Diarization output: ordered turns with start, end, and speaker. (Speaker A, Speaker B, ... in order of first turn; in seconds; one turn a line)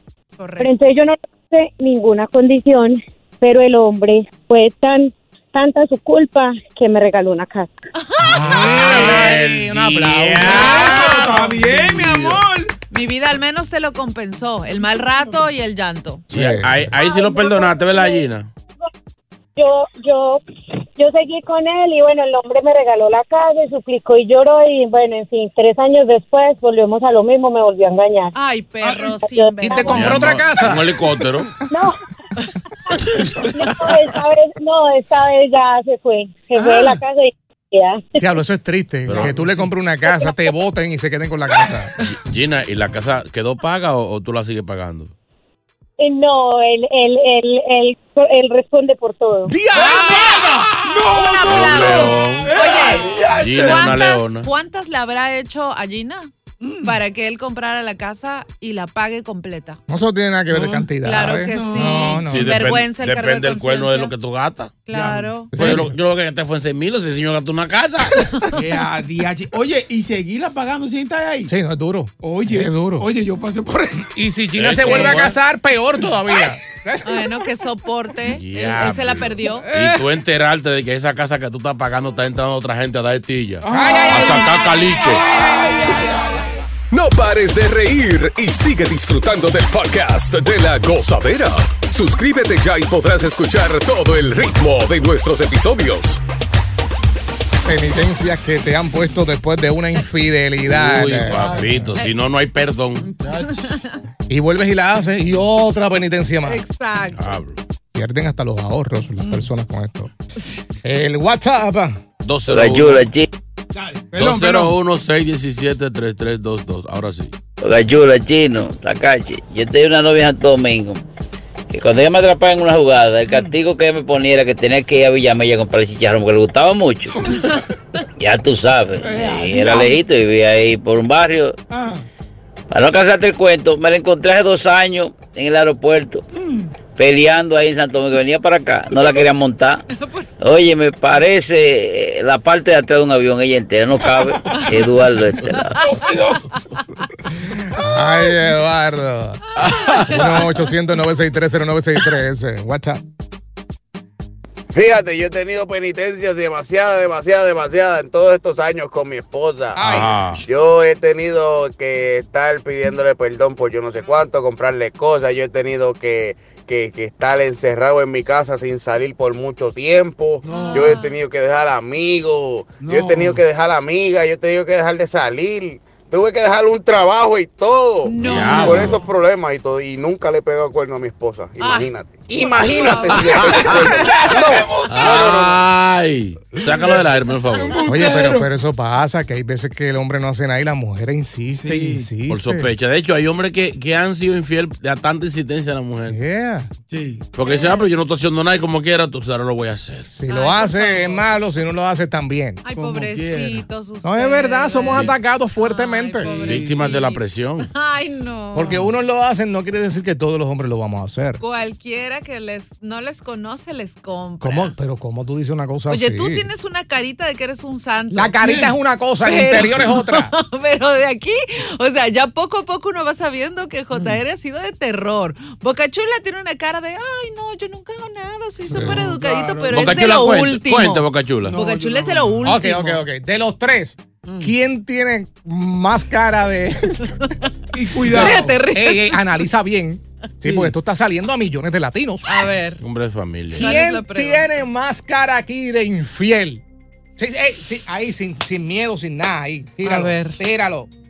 Speaker A: 0.4-0.7
Speaker B: 0.6-7.7
Speaker A: 8.0-8.9
Speaker C: 8.3-12.4
Speaker D: 8.3-9.3
Speaker E: 8.7-11.2
Speaker D: 10.4-12.7
Speaker A: 10.5-11.5
Speaker A: 12.9-16.3
Speaker C: 16.3-16.9
Speaker E: 16.3-18.5
Speaker B: 17.0-18.2
Speaker B: 19.6-20.4
Speaker B: 21.0-28.3
Speaker A: 28.3-30.2
Speaker D: 28.8-29.2
Speaker B: 29.2-29.9
Speaker C: 29.6-31.0
Speaker E: 29.9-31.5
Speaker B: 31.7-32.0
Speaker B: 33.5-38.2
Speaker D: 36.5-37.0
Speaker C: 38.2-41.9
Speaker E: 39.1-39.4
Speaker D: 39.2-39.5
Speaker E: 42.0-45.1
Speaker B: 46.0-49.6
Speaker D: 49.5-54.0
Speaker A: 49.7-56.3
Speaker E: 51.4-52.6
Speaker E: 53.3-54.5
Speaker D: 56.6-57.0
Speaker A: 56.8-59.8
Speaker C: 59.9-62.6
Speaker D: 60.5-62.2
Speaker A: 61.0-64.1
Speaker E: 62.2-64.8
Speaker A: 64.9-65.5
Speaker D: 64.9-65.4
Speaker C: 65.5-66.0
Speaker E: 65.6-68.2
Speaker D: 68.5-71.5
Speaker C: 71.5-73.1
Speaker D: 72.2-74.1
Speaker C: 74.2-77.2
Speaker E: 74.5-75.4
Speaker D: 74.9-75.2
Speaker A: 77.0-79.7
Speaker E: 78.2-85.2
Speaker D: 79.7-80.0
Speaker D: 83.6-86.3
Speaker C: 83.7-84.6
Speaker F: 86.9-96.2
Speaker C: 97.7-101.9
Speaker E: 100.7-103.1
Speaker D: 101.3-101.8
Speaker D: 103.2-103.6
Speaker A: 103.3-104.0
Speaker C: 104.3-106.6
Speaker A: 106.4-107.2
Speaker E: 107.2-107.6
Speaker C: 108.0-110.1
Speaker A: 110.4-110.6
Speaker C: 110.8-112.0
Speaker E: 112.2-113.1
Speaker G: 112.5-113.3
Speaker D: 113.8-114.8
Speaker E: 114.2-117.3
Speaker G: 117.6-121.0
Speaker G: 121.7-127.2
Speaker D: 123.2-123.6
Speaker G: 128.2-131.6
Speaker D: 129.0-130.0
Speaker D: 131.7-132.1
Speaker G: 132.7-136.2
Speaker D: 136.4-136.7
Speaker G: 137.0-139.8
Speaker A: 139.9-140.3
Speaker G: 140.4-145.8
Speaker D: 145.8-146.5
Speaker C: 147.8-149.4
Speaker A: 147.9-148.3
Speaker E: 149.6-150.2
Speaker A: 149.6-150.6
Speaker C: 150.1-153.0
Speaker H: 154.7-159.9
Speaker C: 159.8-160.2
Speaker E: 159.8-160.4
Speaker H: 160.5-185.6
Speaker D: 170.4-171.0
Speaker A: 170.4-171.2
Speaker D: 172.8-173.4
Speaker A: 178.1-179.1
Speaker E: 178.2-179.0
Speaker A: 181.6-184.6
Speaker D: 182.7-182.9
Speaker D: 183.4-185.5
Speaker E: 183.5-183.7
Speaker E: 184.9-187.8
Speaker D: 186.6-188.5
Speaker C: 187.9-192.7
Speaker D: 191.5-192.1
Speaker E: 192.3-196.2
Speaker C: 196.1-196.7
Speaker D: 196.9-197.3
Speaker E: 197.4-200.1
Speaker A: 197.4-197.8
Speaker C: 200.1-202.6
Speaker A: 200.3-201.2
Speaker A: 202.6-208.9
Speaker D: 202.7-203.7
Speaker C: 204.0-206.3
Speaker D: 206.2-207.0
Speaker E: 206.3-207.7
Speaker C: 208.5-211.4
Speaker A: 211.4-214.8
Speaker C: 214.4-216.5
Speaker A: 215.9-218.4
Speaker C: 218.1-220.3
Speaker A: 219.2-233.0
Speaker D: 223.9-224.2
Speaker C: 228.7-229.1
Speaker D: 228.7-229.8
Speaker E: 229.7-231.6
Speaker D: 231.5-232.8
Speaker C: 232.4-237.1
Speaker D: 234.2-234.5
Speaker D: 237.7-238.6
Speaker A: 237.9-239.5
Speaker C: 238.2-242.4
Speaker D: 240.4-240.7
Speaker A: 242.3-242.8
Speaker E: 242.8-243.7
Speaker A: 243.5-244.5
Speaker C: 243.6-246.6
Speaker C: 247.2-250.9
Speaker A: 249.8-250.4